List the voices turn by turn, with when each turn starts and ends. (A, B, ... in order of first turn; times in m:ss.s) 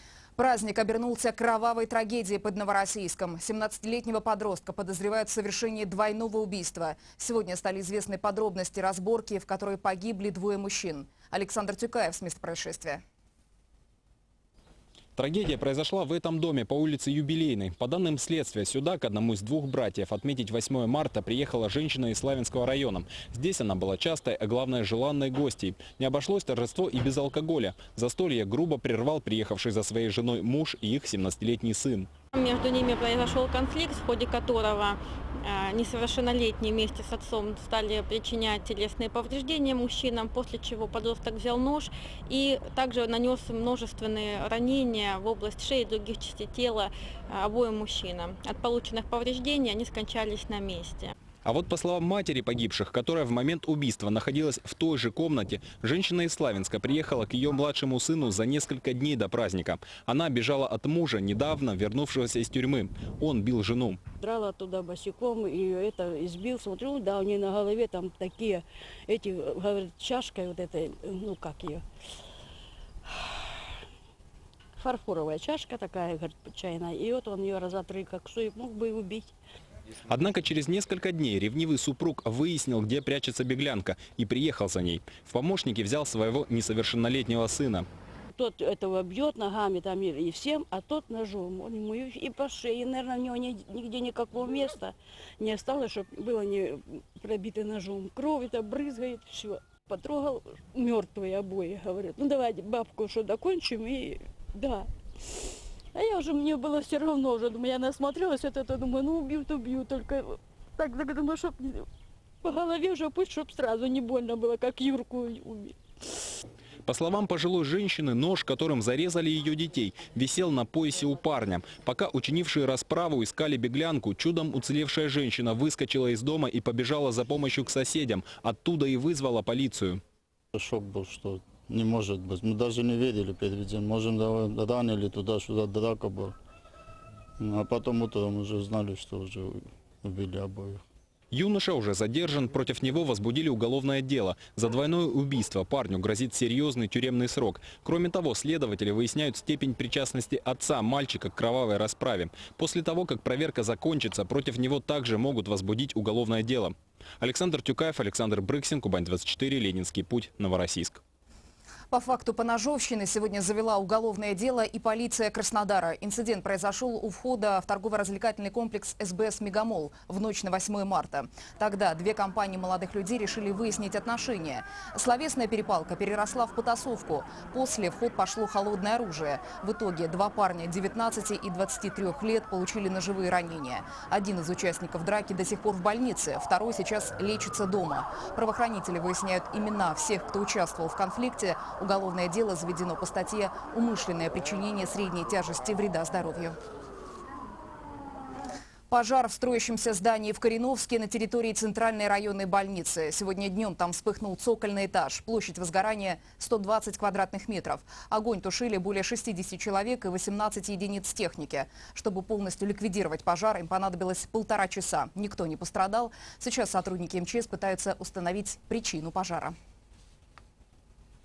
0:00.4-0:13.0 A
0:15.2-0:32.1 B
0:32.3-0:51.1 C
0:51.4-1:04.0 B
1:04.2-1:11.8 D
1:14.8-1:19.3 D
1:20.1-1:27.9 B
1:28.4-1:44.9 D
1:45.9-1:51.9 D
1:52.4-1:55.8 D
1:56.8-2:10.0 B
2:10.5-2:16.3 E
2:17.4-2:20.8 E
2:21.3-2:41.0 B
2:41.9-3:16.6 A
3:18.9-3:39.5 A